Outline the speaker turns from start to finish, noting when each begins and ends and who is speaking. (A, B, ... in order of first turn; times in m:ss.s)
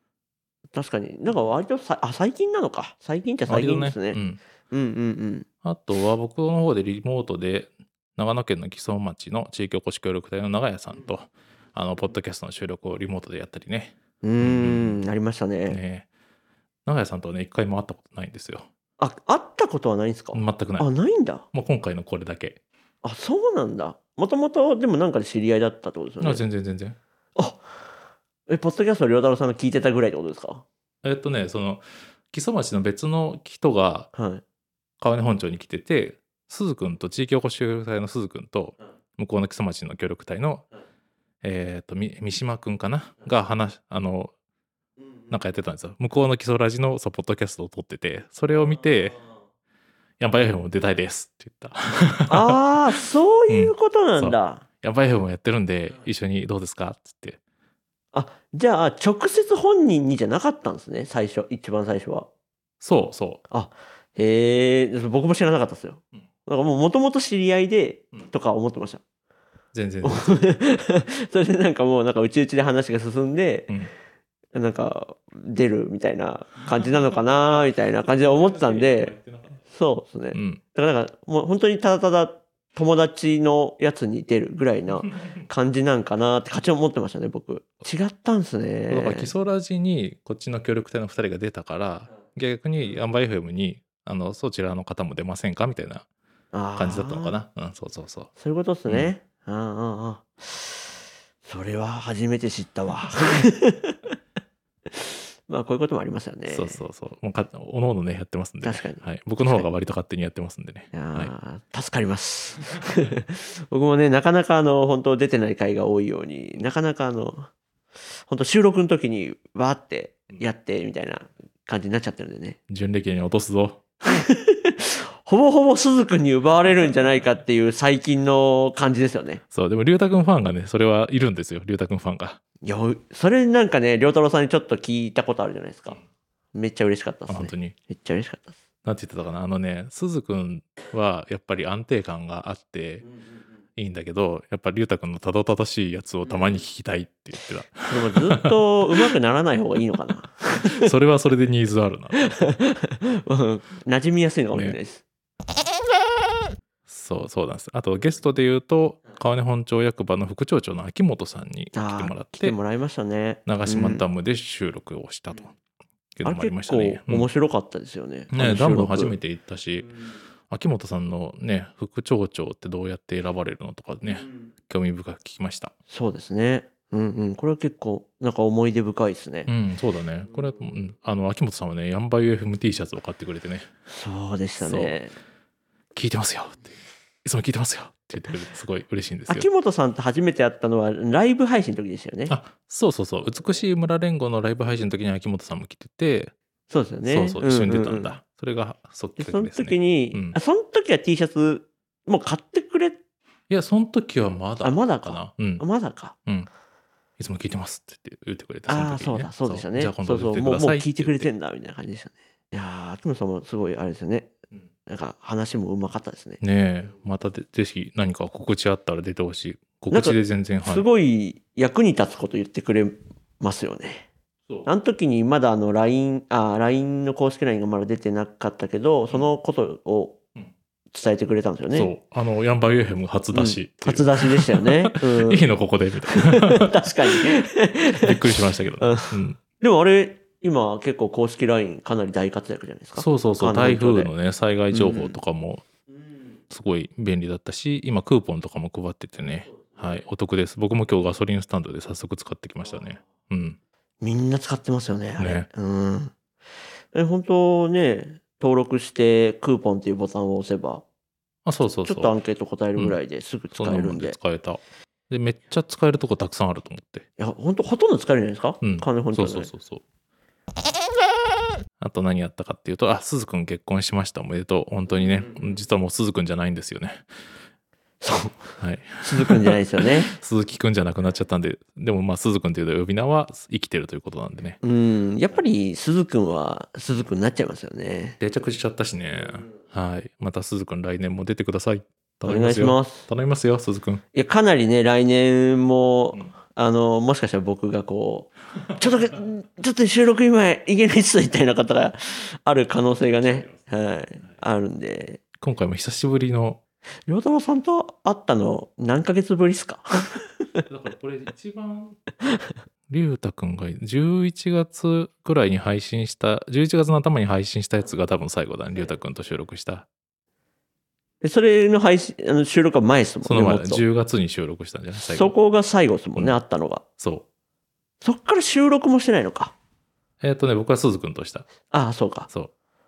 0:00.7-0:05.5 A
0:03.5-0:04.4 B
0:05.6-0:15.0 B
0:14.2-0:15.8 A
0:15.7-0:16.1 B
0:16.9-0:18.7 B
0:19.0-0:21.5 A
0:20.3-0:20.9 B
0:21.5-0:22.6 B
0:23.0-0:26.4 A
0:26.2-0:27.0 B
0:27.4-0:27.6 A
0:28.5-0:30.6 A
0:31.0-0:34.1 B
0:34.1-0:34.4 A
0:35.0-0:40.7 B
0:41.4-0:44.3 B
0:45.3-0:49.2 B
0:50.2-0:52.6 B
0:52.3-0:54.6 A
0:53.5-0:57.4 B
0:58.1-1:02.3 A
1:02.8-1:03.4 B
1:03.5-1:09.0 A
1:09.7-1:10.6 B
1:10.0-1:13.7 A
1:14.5-1:19.1 A
1:18.0-1:19.6 B
1:19.6-1:29.3 A
1:20.3-1:20.6 B
1:28.9-1:36.1 B
1:36.5-1:37.4 A
1:36.8-1:38.3 B
1:38.4-1:44.1 A
1:44.9-1:46.8 A
1:46.5-1:51.3 B
1:48.6-1:49.7 A
1:50.9-1:57.5 A
1:58.3-2:02.6 A
2:02.7-2:03.8 B
2:04.0-2:09.4 A
2:09.5-2:12.4 B
2:12.6-2:16.0 A
2:16.5-2:18.6 A
2:17.3-2:17.8 B
2:18.8-2:23.1 B
2:23.8-2:28.5 B
2:27.8-2:30.9 A
2:30.6-2:32.5 B
2:32.2-2:35.0 A
2:34.5-2:34.8 B
2:36.9-2:42.6 B
2:41.7-2:44.0 A
2:43.5-2:45.6 B
2:46.2-2:47.3 B
2:46.2-2:49.2 A
2:48.3-2:49.9 B
2:50.5-2:55.7 B
2:55.9-2:59.5 A
2:59.5-3:03.7 B
3:03.9-3:05.2 A
3:04.6-3:04.9 B
3:06.0-3:06.7 B
3:07.2-3:09.5 B
3:09.3-3:12.3 A
3:12.3-3:16.3 B
3:16.7-3:18.2 A
3:17.1-3:20.4 B
3:19.2-3:23.0 A
3:23.5-3:25.6 B
3:24.6-3:26.2 A
3:27.2-3:31.3 B
3:28.7-3:34.3 A
3:34.9-3:36.4 A
3:36.4-3:40.8 B
3:39.9-3:44.1 A
3:44.6-3:50.2 A
3:50.9-3:51.9 A
3:51.7-3:57.2 B
3:53.3-3:55.5 A
3:56.1-4:04.1 A
3:57.9-3:59.4 B
4:03.0-4:05.6 B
4:04.7-4:05.2 A
4:06.5-4:13.6 B
4:14.0-4:16.1 A
4:15.2-4:15.5 B
4:16.9-4:20.8 A
4:21.4-4:22.2 B
4:21.8-4:24.2 A
4:23.5-4:27.1 B
4:27.2-4:29.5 A
4:28.6-4:29.8 B
4:31.8-4:37.1 B
4:38.0-4:40.2 A
4:38.6-4:39.6 B
4:40.1-4:44.6 B
4:44.6-4:48.2 A
4:48.2-4:54.0 B
4:52.2-4:53.1 A
4:54.1-5:05.2 A
5:03.2-5:03.6 B
5:05.4-5:06.6 B
5:07.1-5:10.6 A
5:10.7-5:12.0 B
5:12.9-5:19.9 B
5:21.2-5:23.8 A
5:23.2-5:25.3 B
5:25.0-5:26.8 A
5:27.0-5:27.2 B
5:28.0-5:29.5 A
5:30.2-5:31.5 B
5:31.7-5:32.3 A